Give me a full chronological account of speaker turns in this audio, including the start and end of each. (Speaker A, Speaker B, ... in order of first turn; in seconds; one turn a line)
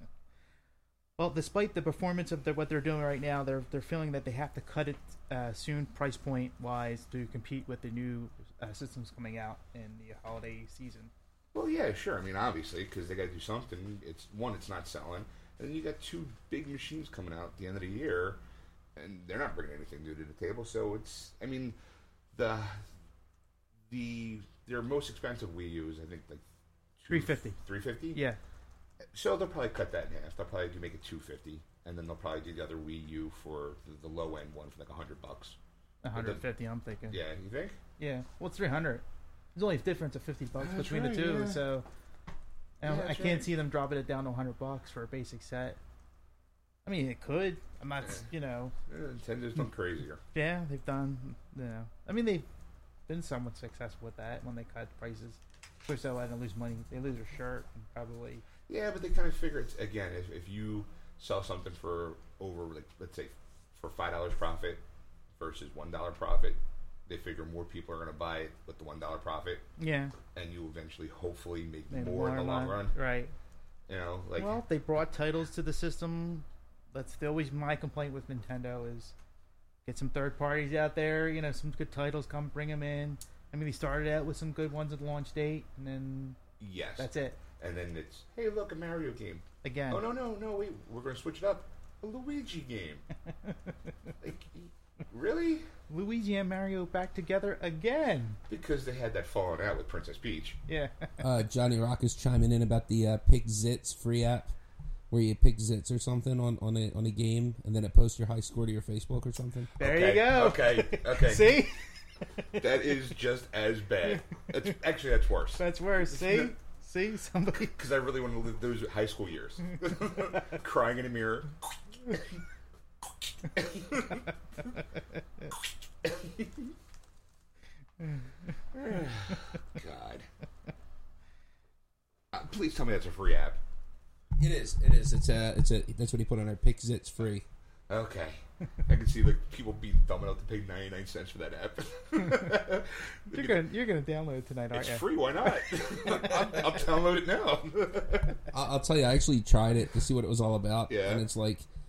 Speaker A: 1.2-11.1
Speaker B: 11.5-18.4
Speaker B: 19.0-21.8
Speaker B: 22.3-22.9
Speaker B: 23.9-26.4
Speaker B: 27.0-28.2
Speaker A: 27.1-27.6
Speaker A: 28.1-28.4
Speaker B: 29.1-35.6
Speaker A: 36.0-37.2
Speaker B: 36.1-36.4
Speaker B: 37.1-37.8
Speaker A: 38.0-39.0
Speaker A: 39.5-41.9
Speaker B: 40.6-41.6
Speaker A: 42.8-45.8
Speaker B: 42.9-43.5
Speaker A: 46.9-48.7
Speaker B: 48.9-50.2
Speaker A: 50.3-52.5
Speaker A: 53.1-58.4
Speaker B: 58.7-64.8
Speaker B: 65.4-69.7
Speaker A: 69.8-70.2
Speaker B: 70.3-73.0
Speaker A: 71.9-73.3
Speaker B: 73.9-74.6
Speaker A: 74.4-79.1
Speaker A: 79.9-86.4
Speaker B: 86.6-93.0
Speaker A: 87.0-87.4
Speaker A: 89.6-90.0
Speaker B: 94.2-95.7
Speaker A: 95.9-98.4
Speaker B: 98.5-100.6
Speaker A: 100.7-101.2
Speaker C: 101.2-104.5
Speaker C: 105.1-109.7
Speaker A: 109.8-112.6
Speaker B: 109.8-111.6
Speaker B: 112.6-116.5
Speaker A: 115.6-117.8
Speaker B: 117.6-122.3
Speaker B: 123.5-124.3
Speaker B: 125.5-126.7
Speaker B: 128.7-130.3
Speaker B: 132.3-133.6
Speaker C: 134.4-137.4
Speaker B: 137.9-143.6
Speaker A: 143.3-145.1
Speaker B: 144.7-148.4
Speaker C: 148.5-151.7
Speaker B: 150.9-151.3